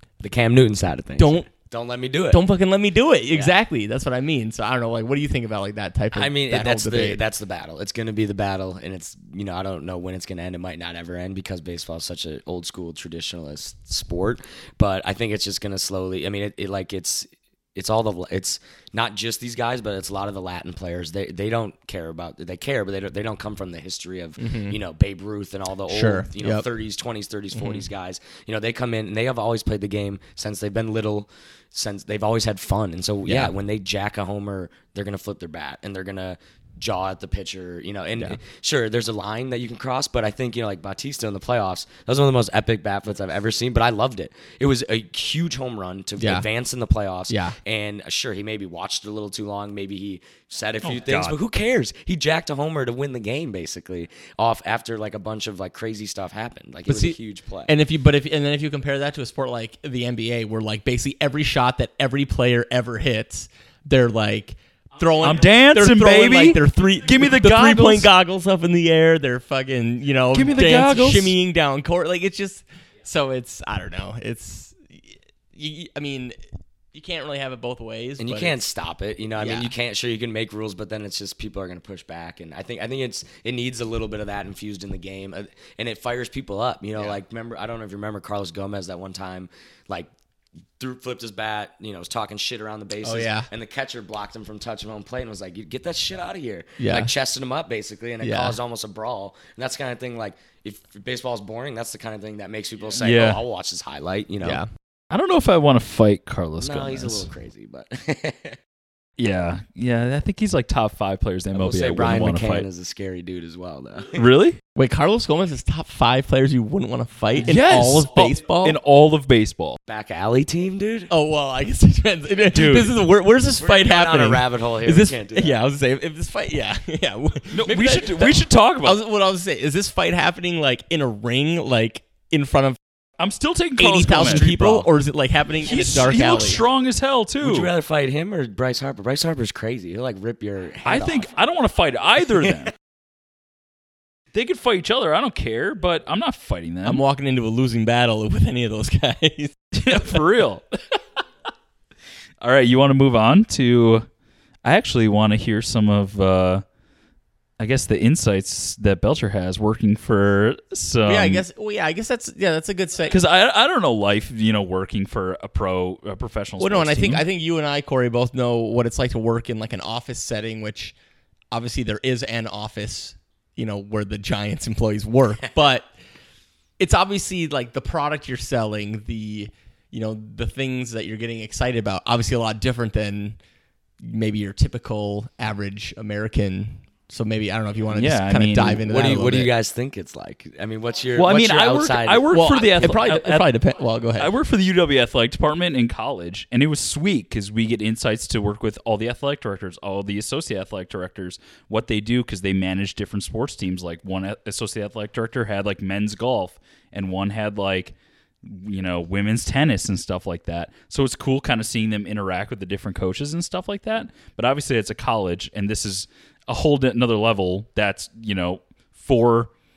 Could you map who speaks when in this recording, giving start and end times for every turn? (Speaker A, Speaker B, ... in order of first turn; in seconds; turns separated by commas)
Speaker A: 0.2-2.4, Speaker B: 1.2-1.5, Speaker B: 2.3-7.2, Speaker A: 6.1-57.7, Speaker B: 24.4-24.8, Speaker B: 25.9-26.7, Speaker B: 27.6-27.9, Speaker B: 33.3-33.5, Speaker B: 46.2-46.5, Speaker B: 47.3-47.6, Speaker C: 50.8-51.4, Speaker B: 56.9-76.4, Speaker C: 65.2-68.1, Speaker C: 70.3-71.3, Speaker B: 76.9-78.6, Speaker A: 78.2-90.1, Speaker B: 79.4-79.7, Speaker A: 90.8-104.6, Speaker B: 93.0-93.5, Speaker B: 96.8-97.1, Speaker B: 98.2-98.6, Speaker C: 103.0-103.4, Speaker B: 104.4-104.7, Speaker C: 105.1-107.3, Speaker A: 106.6-108.6, Speaker C: 109.2-112.7, Speaker A: 111.5-114.2, Speaker C: 114.2-114.6, Speaker B: 114.8-118.8, Speaker C: 117.4-119.8, Speaker A: 119.9-121.1, Speaker B: 121.1-132.8, Speaker C: 122.5-122.8, Speaker A: 123.6-125.6, Speaker C: 127.5-129.0, Speaker C: 133.2-134.9, Speaker B: 133.8-136.6, Speaker C: 135.6-137.7, Speaker A: 137.4-141.3, Speaker C: 140.8-142.7, Speaker C: 144.3-147.0, Speaker B: 146.8-150.2, Speaker C: 149.8-150.6, Speaker C: 152.4-154.1, Speaker C: 154.6-156.6, Speaker C: 157.6-161.4, Speaker B: 161.1-163.2, Speaker C: 163.1-167.3, Speaker B: 166.6-170.9, Speaker B: 171.5-175.9, Speaker B: 176.8-183.4, Speaker B: 184.0-189.5, Speaker C: 187.9-188.9, Speaker A: 188.9-192.9, Speaker C: 191.2-193.5, Speaker B: 192.3-194.3, Speaker C: 194.2-219.5